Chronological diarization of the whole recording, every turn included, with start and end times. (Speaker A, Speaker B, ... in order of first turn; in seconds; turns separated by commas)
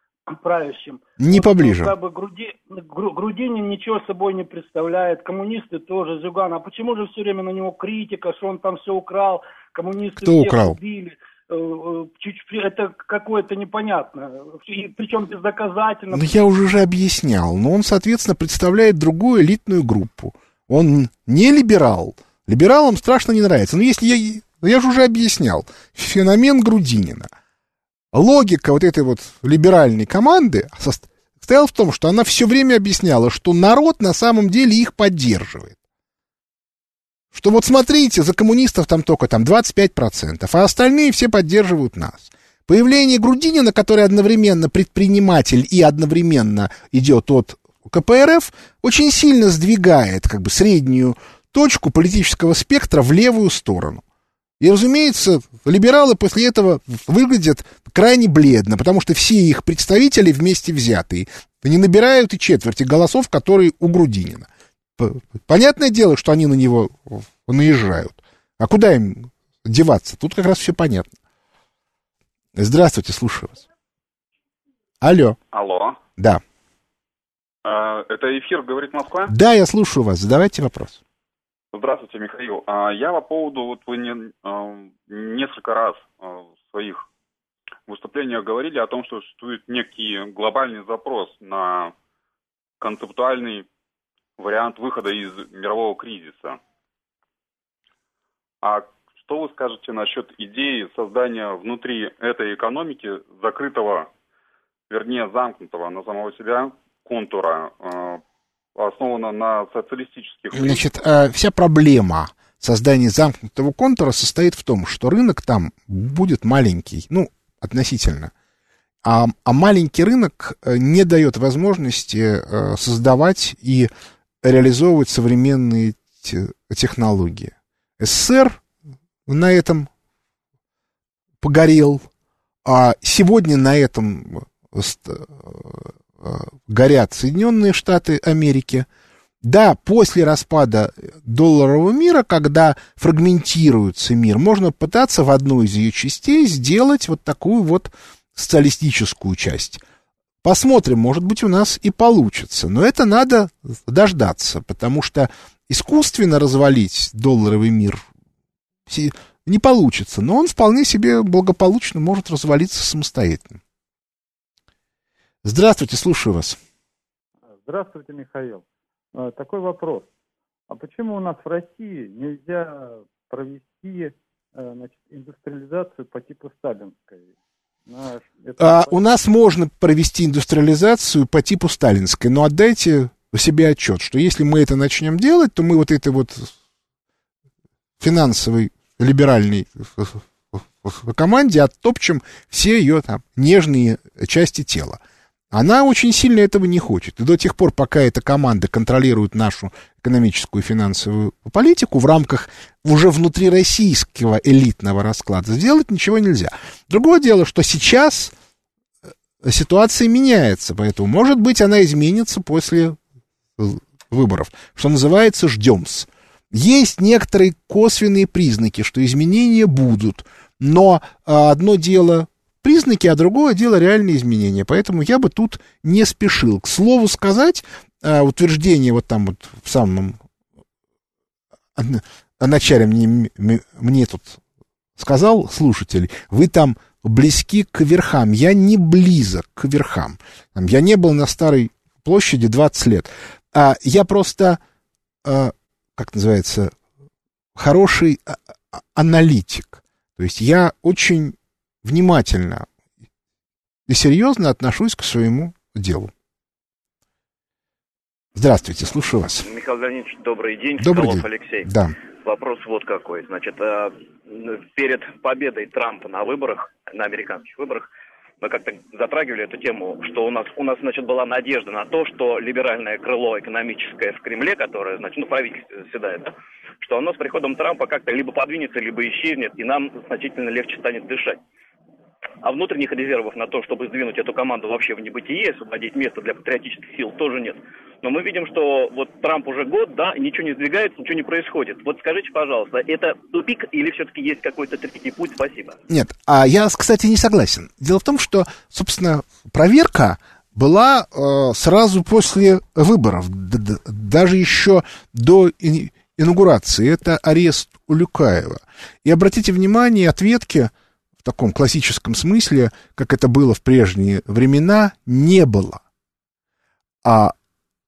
Speaker A: 0.3-16.3, Speaker B: 1.2-1.9, Speaker B: 10.2-10.8, Speaker B: 16.1-27.3, Speaker B: 28.1-35.8, Speaker B: 37.3-54.0, Speaker B: 54.6-64.5, Speaker B: 65.0-71.1, Speaker B: 72.6-73.7, Speaker B: 75.0-75.4, Speaker C: 75.5-76.0, Speaker C: 77.6-79.3, Speaker B: 79.3-81.0, Speaker C: 81.7-87.0, Speaker C: 87.9-91.9, Speaker C: 92.8-93.7, Speaker C: 94.4-96.6, Speaker C: 98.6-104.1, Speaker C: 104.9-108.2, Speaker C: 108.8-110.8, Speaker B: 110.5-118.3, Speaker B: 119.0-123.9, Speaker B: 124.4-128.6, Speaker B: 129.3-129.9, Speaker B: 131.4-132.0, Speaker B: 132.6-138.8, Speaker B: 139.4-149.8, Speaker B: 150.4-158.0, Speaker B: 158.9-163.6, Speaker B: 165.4-166.6, Speaker D: 167.5-168.6, Speaker D: 169.1-170.1, Speaker D: 170.7-177.3, Speaker D: 177.8-178.9, Speaker B: 178.6-186.5, Speaker B: 188.0-195.0, Speaker B: 195.5-208.3, Speaker B: 209.4-213.0, Speaker B: 213.6-230.2, Speaker B: 231.8-234.4, Speaker B: 235.0-244.6, Speaker B: 245.2-246.7, Speaker B: 247.6-248.4, Speaker B: 248.9-252.7, Speaker B: 253.9-256.1, Speaker B: 258.4-259.4, Speaker E: 259.4-261.7, Speaker B: 260.8-261.9, Speaker E: 262.2-267.9, Speaker E: 268.4-281.4, Speaker E: 282.4-295.8, Speaker B: 295.9-310.7, Speaker B: 311.2-315.8, Speaker B: 317.0-317.3